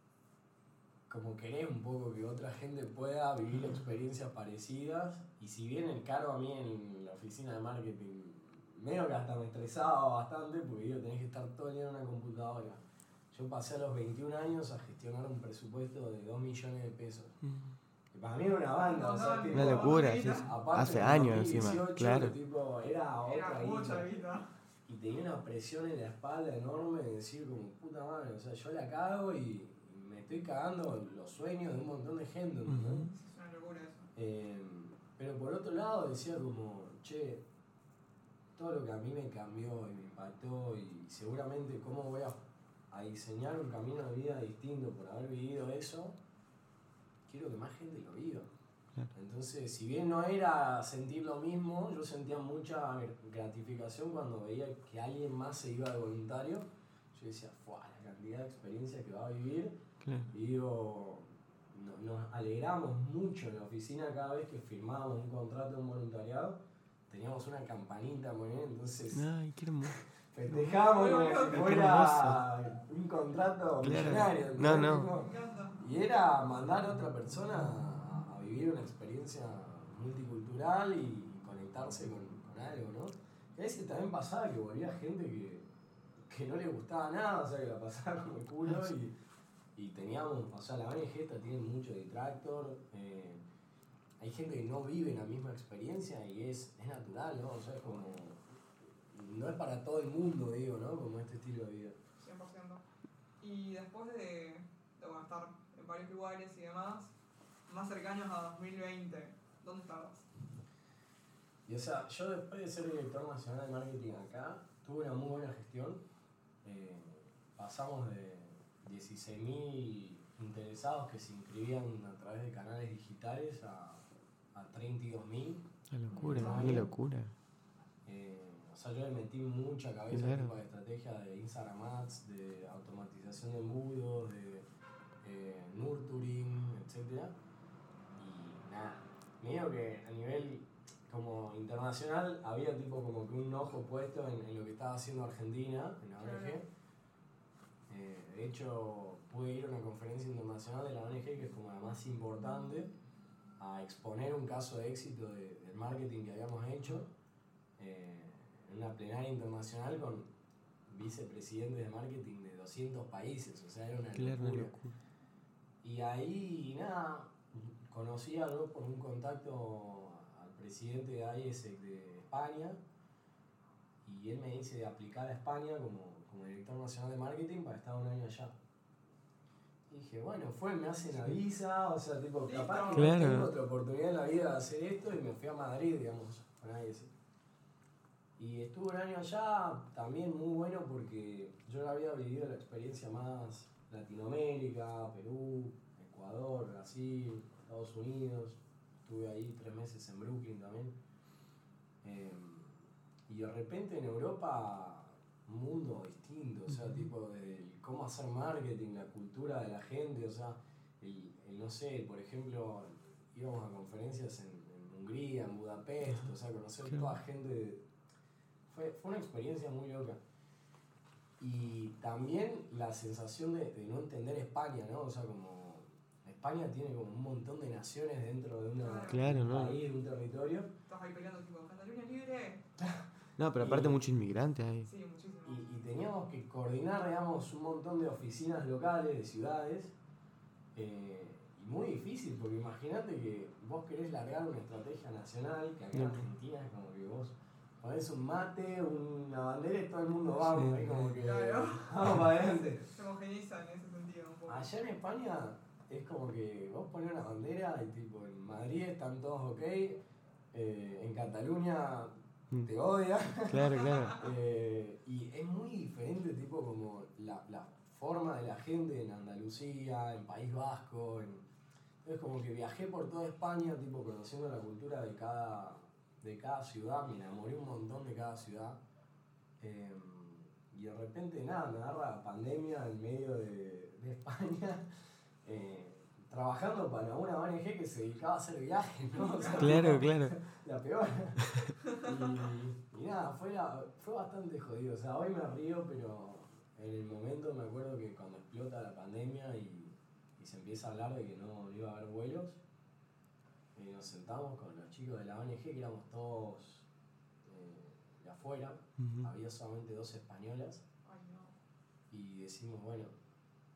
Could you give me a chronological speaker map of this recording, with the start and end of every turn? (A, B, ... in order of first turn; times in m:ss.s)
0:01.1-0:17.4 A
0:17.4-0:17.8 B
0:18.1-0:24.1 A
0:18.8-0:20.5 C
0:19.5-0:22.4 B
0:23.3-0:24.5 C
0:24.9-0:33.1 A
0:32.7-0:33.1 B
0:33.1-0:34.1 C
0:34.2-0:37.4 A
0:38.6-0:42.4 A
0:42.9-0:46.2 A
0:47.3-0:48.5 A
0:49.1-0:59.8 A
1:00.0-1:00.3 B
1:00.3-1:09.3 A
1:09.1-1:10.7 B
1:09.9-1:25.7 A
1:10.8-1:11.8 C
1:11.3-1:12.4 B
1:13.8-1:15.1 B
1:15.1-1:15.8 C
1:26.2-1:29.2 A
1:29.8-1:33.4 A
1:34.2-1:38.4 A
1:39.1-1:42.0 A
1:42.2-1:42.8 C
1:43.4-1:47.1 C
1:47.7-1:50.2 C
1:51.7-1:56.0 A
1:56.6-2:06.9 A
2:05.9-2:07.3 B
2:06.1-2:06.9 C
2:08.1-2:14.7 A
2:10.1-2:10.5 B
2:15.2-2:17.3 A
2:18.1-2:26.6 A
2:26.2-2:26.6 C
2:27.9-2:32.9 A
2:33.6-2:37.1 A
2:37.8-2:40.3 A
2:40.9-2:44.8 A
2:44.2-2:44.9 B
2:45.8-2:52.8 A
2:54.0-2:58.6 A
2:59.9-3:07.1 A
3:02.5-3:03.2 C
3:03.0-3:03.5 B
3:08.4-3:21.0 A
3:22.0-3:37.8 A
3:36.8-3:37.1 B
3:38.7-3:40.2 A
3:41.4-3:50.7 A
3:48.8-3:49.2 C
3:49.0-3:49.8 B
3:50.9-3:52.6 C
3:52.8-3:53.0 A
3:53.4-3:54.9 B
3:53.6-3:54.0 A
3:54.9-3:55.6 C
3:55.4-3:59.9 A
4:00.8-4:12.8 A
4:05.9-4:06.2 B
4:10.5-4:11.0 B
4:11.2-4:14.8 C
4:14.5-4:22.1 A
4:22.6-4:31.4 A
4:23.5-4:24.2 B
4:23.8-4:24.1 C
4:32.0-4:38.8 A
4:39.6-4:44.9 A
4:45.4-5:02.6 A
4:49.2-4:49.9 C
4:49.6-4:50.4 B
5:03.8-5:06.9 A
5:07.4-5:10.8 A
5:09.0-5:09.3 B
5:11.0-5:11.6 C
5:12.1-5:13.2 A